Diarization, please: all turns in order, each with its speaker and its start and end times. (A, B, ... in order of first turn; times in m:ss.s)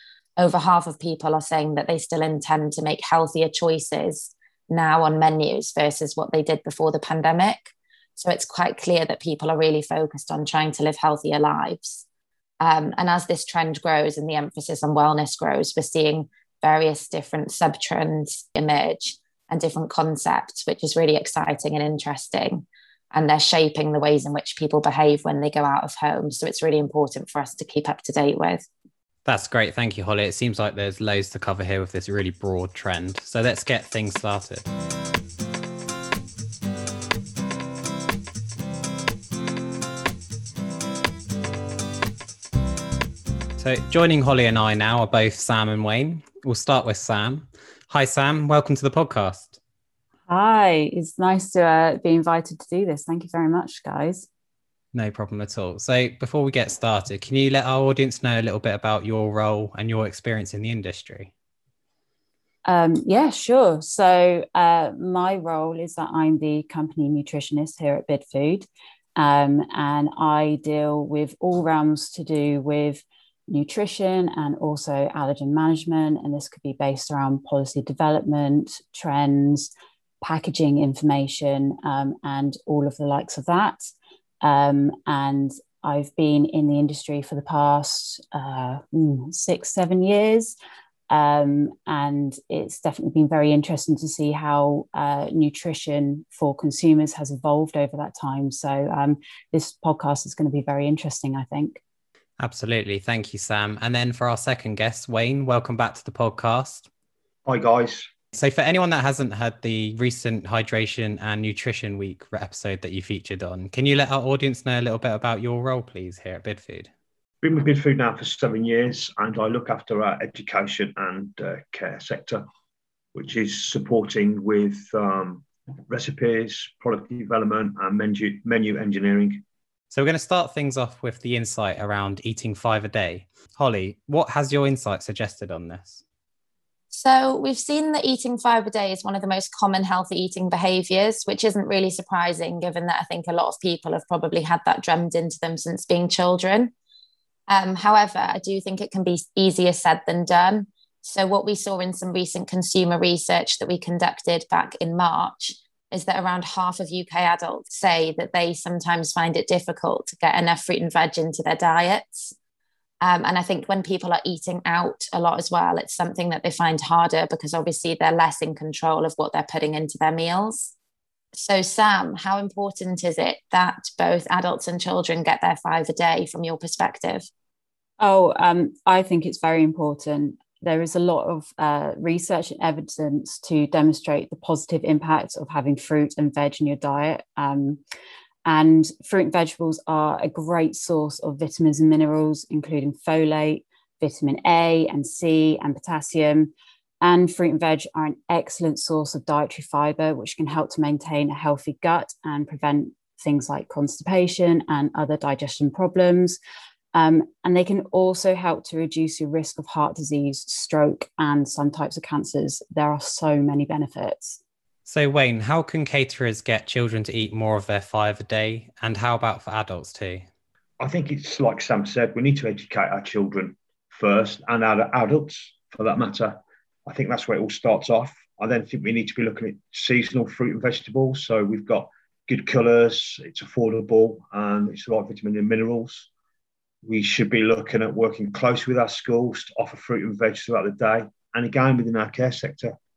0:00.4-0:12.0 A
0:12.6-0:28.7 A
0:29.2-0:34.7 B
0:43.6-0:49.6 B
0:50.3-0:54.3 C
0:54.9-1:01.3 B
1:02.6-1:19.7 C
1:20.2-1:23.8 C
1:24.4-1:30.6 C
1:31.1-1:41.8 C
1:42.4-1:46.9 B
1:47.4-1:48.1 D
1:48.3-1:56.9 B
1:57.4-2:02.4 D
2:03.1-2:09.4 D
2:09.9-2:16.0 B
2:16.9-2:26.7 A
2:27.5-2:42.3 A
2:43.0-2:50.7 A
2:51.3-2:57.3 A
2:58.0-3:07.8 C
3:08.4-3:26.4 C
3:26.9-3:34.4 C
3:34.9-3:40.3 B
3:40.8-3:56.1 D
3:56.8-4:02.8 D